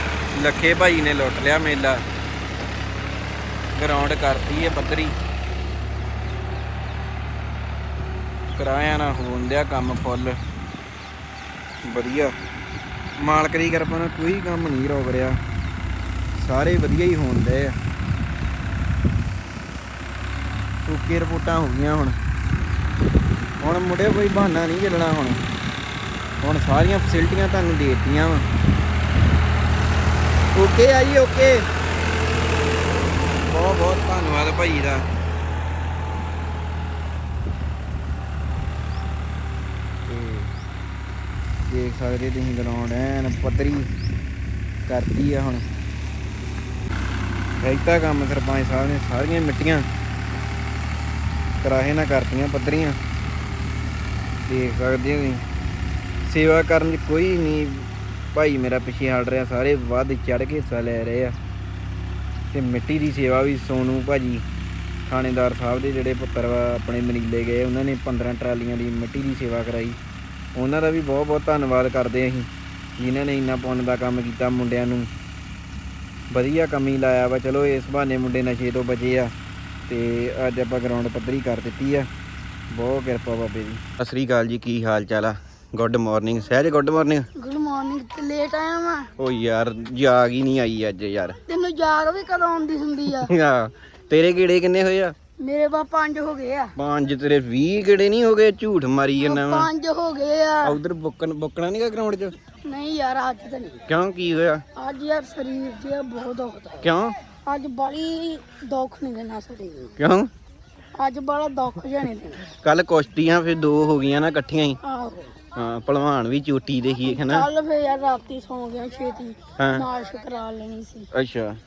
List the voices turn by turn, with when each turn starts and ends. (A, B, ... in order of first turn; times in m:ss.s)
0:00.3-0:02.0 A
0:03.7-0:05.2 A
0:08.5-0:10.4 A
0:11.8-0:12.3 A
0:13.2-0:15.4 A
0:16.3-0:17.8 A
0:20.8-0:22.2 A
0:23.6-0:25.4 A
0:26.4-0:28.5 A
0:30.5-0:31.6 A
0:33.3-0:35.0 A
0:40.0-0:40.5 A
0:41.7-0:43.9 A
0:44.9-0:45.6 A
0:47.6-0:49.9 A
0:51.6-0:53.0 A
0:54.4-0:55.4 A
0:56.2-1:01.4 A
1:02.5-1:04.4 A
1:05.1-1:10.0 A
1:10.5-1:15.1 A
1:16.3-1:19.3 A
1:19.9-1:22.1 A
1:22.7-1:27.2 A
1:27.4-1:29.1 B
1:29.2-1:31.4 A
1:31.5-1:33.3 B
1:33.2-1:35.1 A
1:35.4-1:36.7 B
1:36.8-1:39.7 A
1:39.2-1:40.8 B
1:40.6-1:42.4 A
1:42.6-1:43.8 B
1:43.9-1:44.6 A
1:44.7-1:46.9 B
1:46.8-1:47.2 A
1:47.4-1:49.9 B
1:50.0-1:50.3 A
1:50.9-1:52.5 B
1:52.6-1:54.8 A
1:54.8-1:55.4 B
1:55.5-1:57.5 A
1:57.0-2:01.1 B
1:59.6-1:59.8 A
2:01.1-2:01.6 A